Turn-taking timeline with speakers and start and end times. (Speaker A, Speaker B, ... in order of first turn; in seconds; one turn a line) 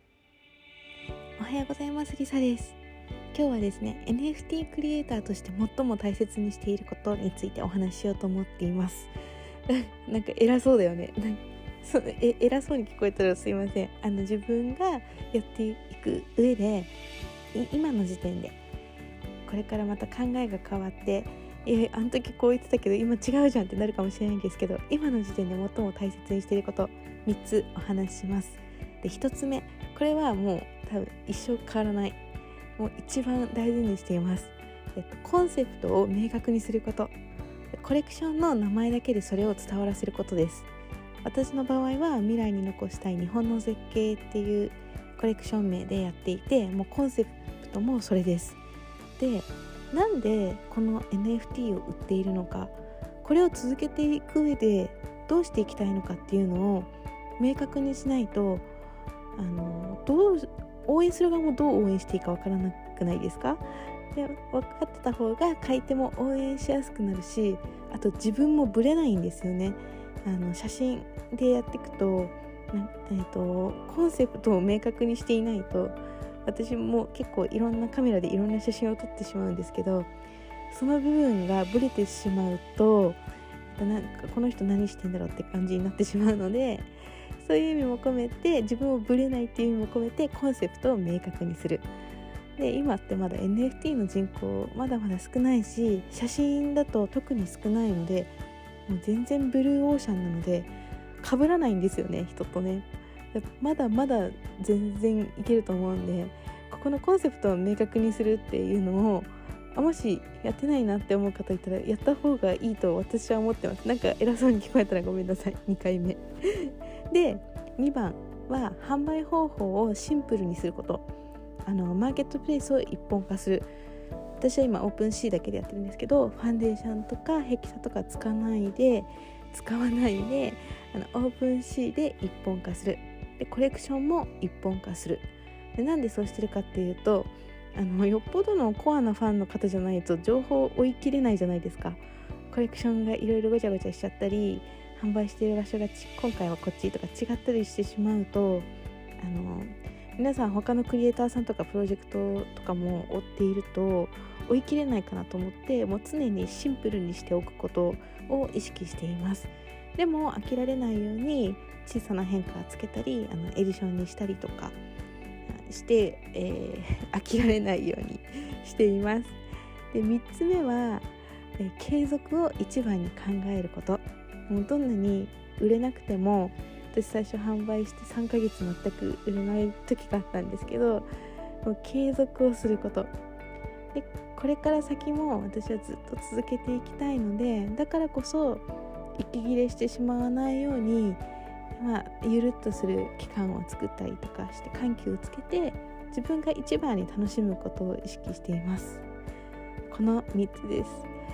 Speaker A: 1.4-2.8
Speaker A: 3.3-9.1
Speaker A: 9.7-16.9
Speaker A: 17.5-18.6
Speaker A: 19.5-32.2
Speaker A: 32.8-37.1
Speaker A: 37.8-40.7
Speaker A: 41.2-48.6
Speaker A: 49.2-58.6
Speaker A: 59.4-80.1
Speaker A: 80.7-83.2
Speaker A: 83.7-86.9
Speaker A: 87.4-91.9
Speaker A: 92.6-98.3
Speaker A: 98.9-100.7
Speaker A: 101.2-121.1
Speaker A: 121.7-123.7
Speaker A: 124.4-148.7
Speaker A: 149.2-164.8
Speaker A: 165.5-169.4
Speaker A: 169.9-181.1
Speaker A: 181.6-183.1
Speaker A: 183.9-188.6
Speaker A: 189.2-191.2
Speaker A: 191.8-199.1
Speaker A: 199.9-201.1